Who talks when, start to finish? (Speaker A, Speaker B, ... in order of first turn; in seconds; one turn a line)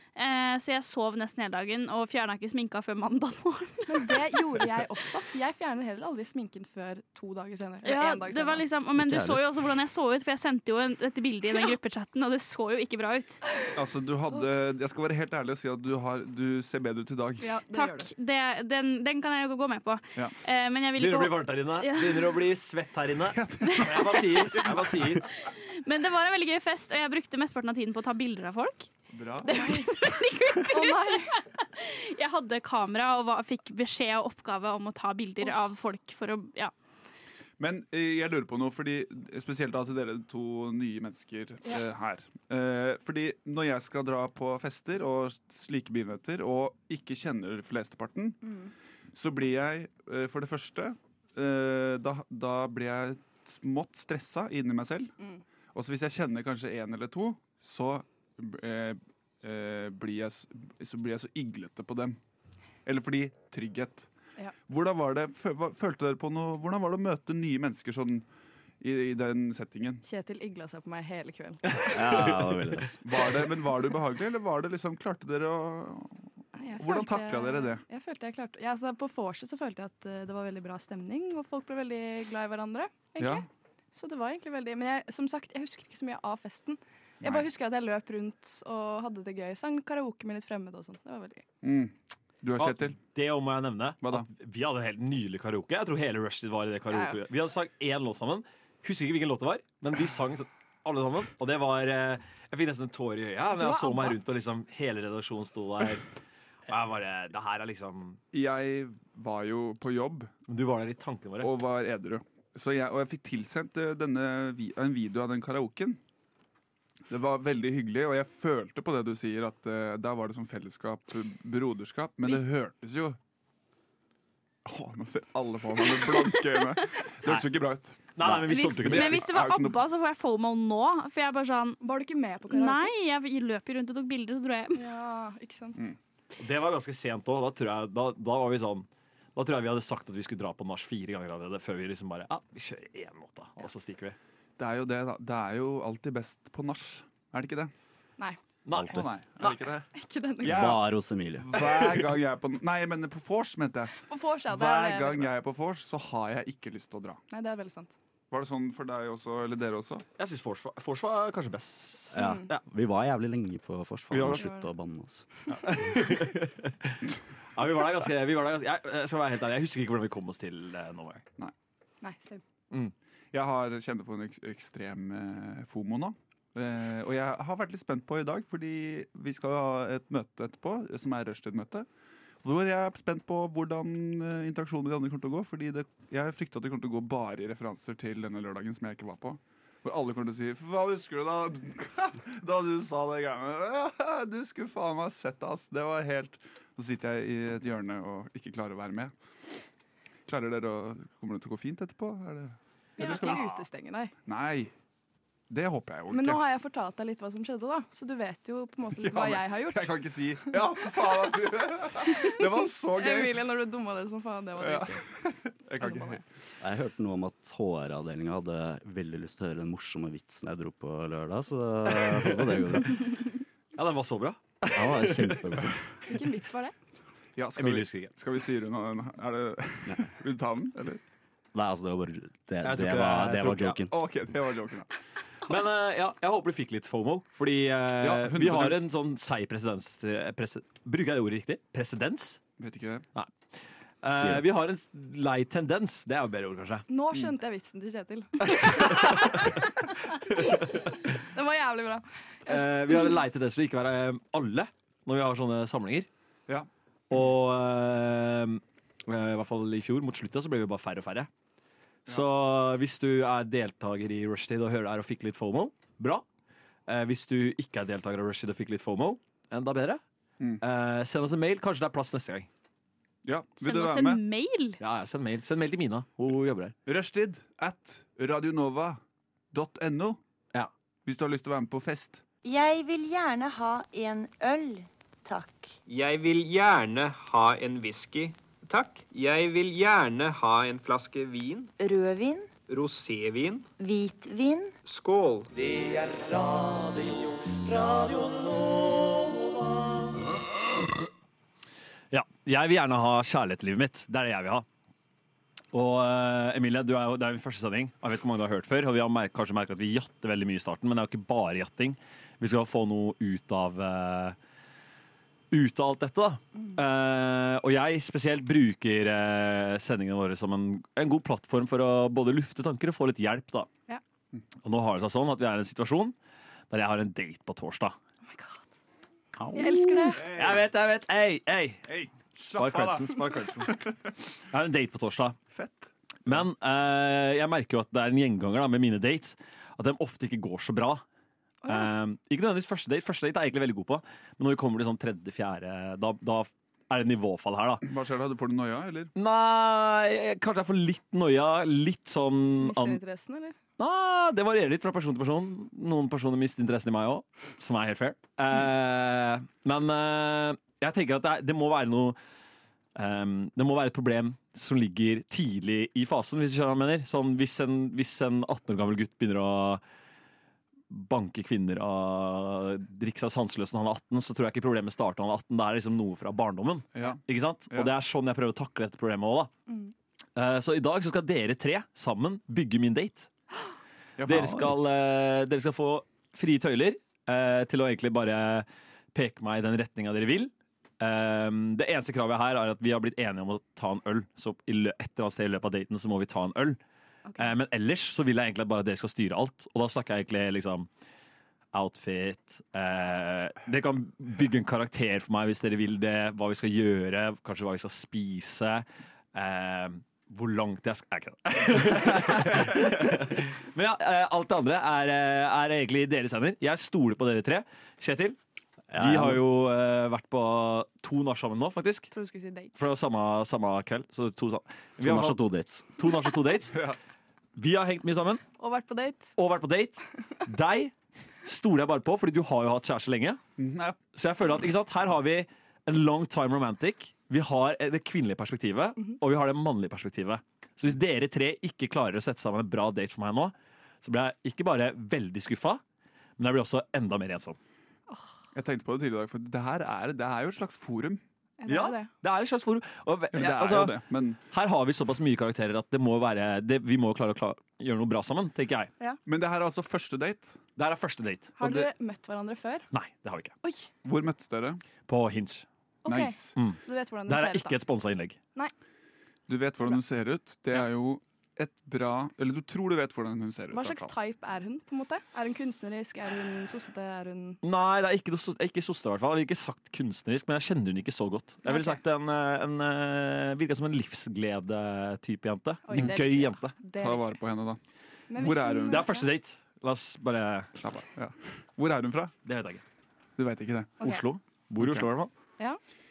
Speaker A: 0.2-4.4
Speaker B: 3.9-8.7
Speaker A: 7.8-13.4
Speaker C: 8.9-9.5
Speaker D: 13.7-17.5
Speaker B: 17.4-18.1
Speaker A: 17.7-22.4
Speaker E: 21.0-25.2
Speaker D: 23.3-25.0
Speaker A: 25.4-28.9
Speaker D: 29.1-29.6
Speaker A: 29.4-36.7
Speaker B: 29.4-30.0
Speaker B: 30.6-31.4
Speaker D: 37.6-48.5
Speaker B: 48.4-48.7
Speaker D: 49.1-55.1
Speaker D: 55.7-62.2
Speaker D: 62.9-64.1
Speaker D: 64.7-68.2
Speaker D: 68.8-70.0
Speaker B: 70.0-71.9
Speaker E: 71.7-72.6
Speaker C: 71.9-73.0
Speaker D: 73.0-76.2
Speaker B: 76.5-91.5
Speaker D: 76.8-77.8
Speaker D: 83.2-83.4
Speaker D: 91.6-93.0
Speaker E: 92.6-106.0
Speaker B: 103.5-104.2
Speaker E: 106.7-108.2
Speaker D: 108.3-110.3
Speaker E: 110.5-111.5
Speaker D: 111.4-116.0
Speaker D: 117.1-123.2
Speaker D: 124.7-129.8
Speaker E: 128.2-129.3
Speaker A: 128.4-131.8
Speaker B: 131.8-132.9
Speaker A: 132.5-134.8
Speaker B: 134.7-135.8
Speaker E: 136.4-144.2
Speaker D: 144.6-147.7
Speaker E: 148.7-149.1
Speaker C: 148.8-149.0
Speaker D: 148.8-149.9
Speaker B: 149.9-150.8
Speaker C: 150.4-151.9
Speaker D: 150.4-154.0
Speaker B: 154.0-155.3
Speaker D: 154.5-157.2
Speaker B: 157.3-157.9
Speaker D: 158.3-160.1
Speaker E: 160.2-162.6
Speaker C: 162.1-165.3
Speaker B: 162.2-162.5
Speaker E: 164.1-164.5
Speaker B: 164.3-164.7
Speaker E: 165.6-167.0
Speaker E: 167.6-171.2
Speaker B: 172.0-172.4
Speaker D: 173.3-181.9
Speaker D: 182.4-199.1
Speaker D: 200.3-203.6
Speaker B: 203.0-204.1
Speaker D: 204.2-204.7
Speaker D: 205.5-206.4
Speaker B: 206.1-210.0
Speaker D: 209.0-213.4
Speaker B: 212.2-215.0
Speaker D: 214.6-216.2
Speaker B: 215.8-216.2
Speaker C: 216.6-223.2
Speaker E: 223.8-225.4
Speaker C: 224.7-225.8
Speaker B: 226.1-226.8
Speaker D: 227.4-231.0
Speaker E: 227.6-228.1
Speaker C: 231.5-233.9
Speaker E: 232.6-233.8
Speaker D: 233.9-234.9
Speaker E: 235.5-242.4
Speaker D: 238.0-238.8
Speaker D: 242.6-243.1
Speaker E: 244.0-246.9
Speaker C: 244.1-244.4
Speaker B: 246.9-249.7
Speaker E: 248.4-249.4
Speaker E: 250.3-250.9
Speaker B: 251.1-253.2
Speaker E: 252.5-256.1
Speaker E: 257.1-261.3
Speaker E: 262.1-266.2
Speaker E: 266.9-270.0
Speaker E: 270.6-272.5
Speaker D: 273.2-274.2
Speaker A: 273.6-274.8
Speaker E: 274.8-276.8
Speaker D: 276.9-279.0
Speaker D: 279.5-280.2
Speaker D: 281.1-282.2
Speaker F: 282.4-285.8
Speaker G: 285.9-291.7
Speaker F: 291.8-292.5
Speaker G: 292.7-293.7
Speaker F: 293.8-294.8
Speaker G: 294.8-295.5
Speaker E: 302.1-304.7
Speaker E: 305.7-314.4
Speaker E: 315.5-323.7
Speaker E: 324.6-326.1
Speaker E: 326.7-328.0
Speaker B: 328.2-328.6
Speaker C: 329.4-330.1
Speaker B: 329.5-330.3
Speaker D: 330.1-330.7
Speaker E: 330.3-331.9
Speaker D: 331.9-333.9
Speaker E: 332.5-333.8
Speaker E: 334.5-335.4
Speaker D: 335.5-336.4
Speaker E: 336.2-341.0
Speaker B: 341.6-341.9
Speaker E: 341.7-347.9
Speaker D: 347.8-349.1
Speaker E: 349.2-353.0
Speaker B: 352.6-353.6
Speaker E: 353.8-362.2
Speaker E: 362.9-369.8
Speaker E: 370.9-379.5
Speaker D: 376.9-377.9
Speaker E: 380.4-383.3
Speaker D: 384.2-384.7
Speaker E: 384.2-396.8
Speaker B: 397.3-397.5
Speaker E: 397.4-400.9
Speaker E: 401.7-418.4
Speaker C: 418.9-419.4
Speaker E: 419.0-422.1
Speaker B: 422.1-422.8
Speaker E: 422.8-425.4
Speaker C: 425.0-425.9
Speaker E: 426.0-426.8
Speaker E: 427.6-428.4
Speaker B: 428.6-429.3
Speaker E: 429.4-433.4
Speaker D: 433.6-434.0
Speaker E: 434.1-445.8
Speaker E: 446.4-447.6
Speaker D: 448.5-451.2
Speaker B: 451.6-452.1
Speaker E: 451.7-458.9
Speaker D: 453.3-454.4
Speaker D: 459.2-460.6
Speaker E: 460.8-461.5
Speaker B: 461.6-462.9
Speaker D: 461.6-461.9
Speaker E: 462.9-463.5
Speaker B: 463.6-463.9
Speaker D: 464.0-464.8
Speaker E: 465.1-465.7
Speaker B: 466.0-467.8
Speaker D: 466.1-466.6
Speaker E: 466.6-468.4
Speaker D: 469.5-474.1
Speaker B: 473.7-477.6
Speaker E: 477.6-486.8
Speaker B: 481.6-482.0
Speaker B: 485.9-487.4
Speaker D: 486.9-487.8
Speaker B: 488.3-489.3
Speaker D: 488.3-489.1
Speaker E: 488.8-490.7
Speaker D: 490.8-492.4
Speaker E: 492.4-492.8
Speaker D: 493.4-494.0
Speaker E: 494.0-495.3
Speaker D: 494.8-495.1